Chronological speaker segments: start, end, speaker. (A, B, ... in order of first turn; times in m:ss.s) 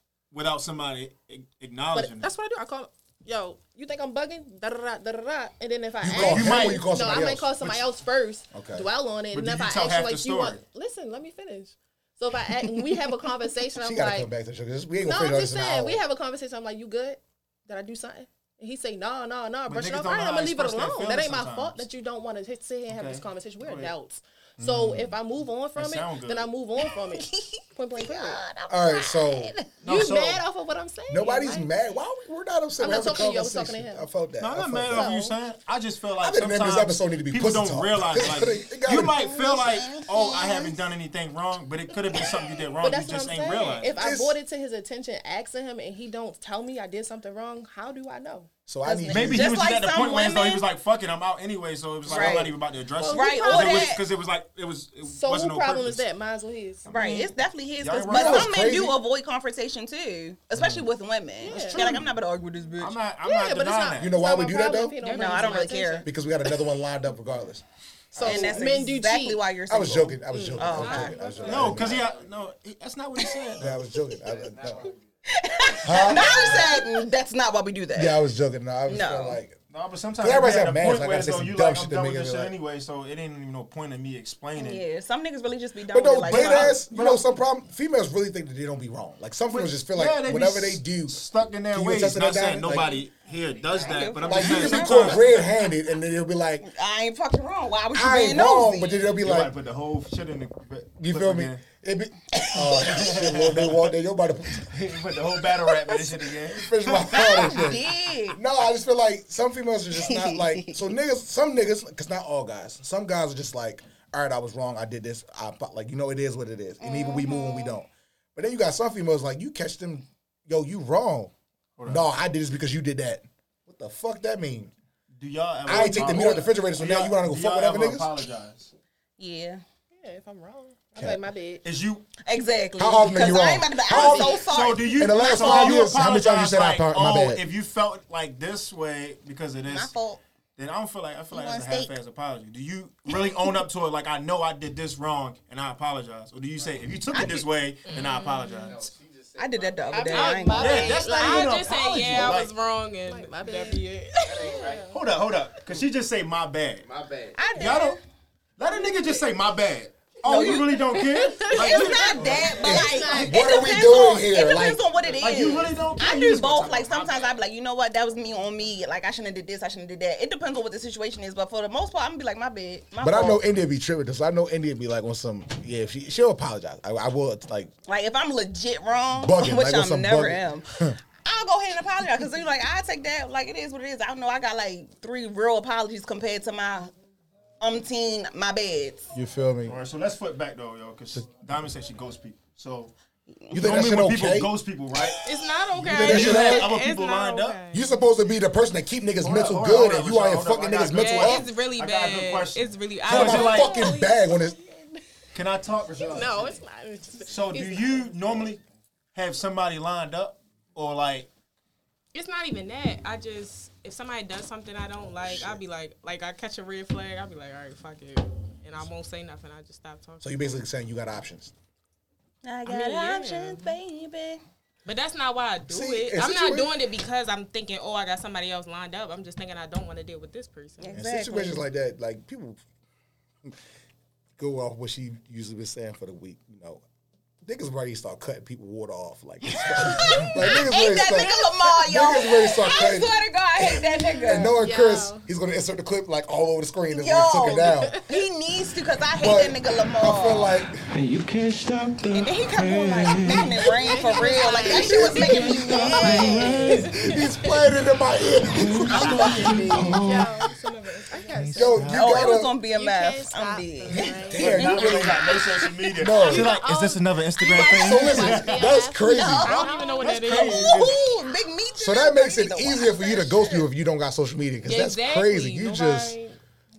0:00.3-0:02.3 A
0:01.9-0:14.3 B
0:06.0-0:07.6 C
0:06.1-0:06.8 A
0:08.5-0:08.9 C
0:09.3-0:10.6 A
0:13.8-0:16.0 C
0:15.0-0:28.4 B
0:19.7-0:21.9 A
0:22.9-0:23.9 A
0:24.6-0:25.1 C
0:25.7-0:26.5 A
0:26.8-0:29.7 D
0:28.7-0:29.5 C
0:29.8-0:30.4 A
0:29.8-0:31.7 B
0:31.1-0:35.1 C
0:32.8-0:34.0 B
0:34.4-0:44.0 A
0:34.9-0:35.3 B
0:36.2-0:39.2 C
0:39.2-0:40.8 D
0:42.8-0:48.5 B
0:44.0-0:44.4 C
0:48.7-0:49.6 C
0:48.8-0:50.6 D
0:49.1-0:56.0 A
0:52.1-0:52.6 D
0:53.0-0:54.0 B
0:53.1-0:54.0 D
0:55.0-0:56.9 B
0:56.8-0:58.6 A
0:56.9-1:03.0 D
0:58.1-0:59.0 C
1:01.4-1:01.8 B
1:01.4-1:02.1 A
1:02.8-1:04.2 A
1:03.2-1:06.1 B
1:04.0-1:05.0 C
1:05.0-1:06.1 D
1:05.3-1:05.7 E
1:06.0-1:07.6 C
1:08.1-1:09.4 B
1:08.2-1:08.6 A
1:08.2-1:11.2 D
1:09.7-1:12.1 C
1:10.3-1:11.7 B
1:10.8-1:11.4 E
1:11.2-1:12.4 F
1:11.4-1:13.8 A
1:13.6-1:14.9 C
1:14.2-1:15.1 F
1:15.3-1:18.2 D
1:15.7-1:16.0 F
1:15.8-1:16.6 C
1:17.9-1:19.6 C
1:18.9-1:19.4 D
1:19.7-1:24.8 A
1:20.2-1:22.5 C
1:24.5-1:26.8 D
1:25.9-1:31.2 C
1:26.2-1:27.2 A
1:29.5-1:35.4 A
1:31.7-1:33.0 C
1:32.7-1:33.0 D
1:33.6-1:35.5 D
1:34.2-1:36.7 C
1:36.6-1:39.1 D
1:37.9-1:39.5 C
1:39.2-1:41.6 A
1:41.0-1:44.7 C
1:42.3-1:43.0 D
1:42.8-1:43.9 A
1:44.6-1:47.8 A
1:45.6-1:46.1 D
1:46.5-2:01.3 C
1:47.1-1:48.4 D
1:50.0-1:50.8 D
1:56.8-1:57.8 D
2:01.8-2:02.0 A
2:01.8-2:04.7 C
2:05.1-2:08.7 A
2:05.6-2:08.1 C
2:05.7-2:06.4 D
2:09.2-2:09.6 D
2:09.9-2:11.6 B
2:11.0-2:11.2 C
2:11.6-2:12.0 A
2:12.2-2:15.9 D
2:12.8-2:17.4 C
2:14.0-2:14.3 B
2:14.0-2:19.9 A
2:19.6-2:20.2 D
2:20.6-2:28.9 A
2:21.3-2:21.9 D
2:26.5-2:27.2 F
2:27.1-2:27.5 D
2:27.8-2:28.8 E
2:28.6-2:30.6 F
2:29.4-2:31.1 D
2:29.9-2:32.4 B
2:30.1-2:34.6 E
2:30.5-2:32.5 A
2:33.0-2:35.0 B
2:34.2-2:35.0 F
2:34.9-2:36.9 A
2:36.8-2:37.6 F
2:37.3-2:38.0 D
2:37.5-2:38.0 A
2:38.6-2:42.8 A
2:38.7-2:39.2 B
2:40.2-2:40.9 D
2:40.7-2:44.3 B
2:41.5-2:53.4 D
2:42.2-2:42.6 F
2:42.6-2:44.8 C
2:44.9-2:45.9 F
2:45.2-2:47.3 A
2:53.0-2:57.7 C
2:57.8-3:06.9 D
2:59.2-3:01.0 C
3:07.6-3:09.1 D
3:09.1-3:09.8 C
3:09.6-3:12.9 A
3:13.3-3:13.8 D
3:13.5-3:14.5 C
3:13.6-3:15.2 A
3:15.2-3:17.9 E
3:15.7-3:17.6 A
3:15.8-3:16.7 C
3:17.7-3:21.5 C
3:19.2-3:23.8 A
3:20.9-3:24.1 E
3:23.0-3:24.6 C
3:23.4-3:25.0 B
3:25.3-3:26.6 A
3:25.9-3:28.4 B
3:27.3-3:28.6 A
3:29.1-3:31.3 A
3:32.1-3:40.6 E
3:35.2-3:35.6 C
3:40.2-3:41.5 C
3:42.4-3:44.4 D
3:42.6-3:43.8 E
3:44.8-3:51.0 E
3:45.7-3:46.7 C
3:50.8-3:51.6 D
3:50.9-3:52.6 C
3:54.4-3:56.8 C
3:57.4-4:08.0 C
3:59.5-4:04.6 D
4:03.8-4:05.2 B
4:06.9-4:10.6 D
4:07.9-4:08.2 B
4:09.2-4:10.8 C
4:10.9-4:13.7 G
4:12.1-4:16.9 D
4:13.5-4:17.0 B
4:14.7-4:16.9 G
4:14.7-4:19.8 C
4:16.5-4:17.5 E
4:18.5-4:20.4 G
4:18.9-4:19.9 D
4:18.9-4:19.7 A
4:19.1-4:21.4 E
4:19.1-4:24.7 B
4:21.5-4:22.5 C
4:21.8-4:25.2 D
4:23.9-4:25.3 C
4:24.3-4:28.8 A
4:25.9-4:26.6 C
4:26.1-4:30.2 B
4:27.7-4:29.6 C
4:29.0-4:33.7 D
4:29.4-4:31.0 E
4:30.0-4:31.0 A
4:31.8-4:36.2 C
4:34.6-4:36.4 E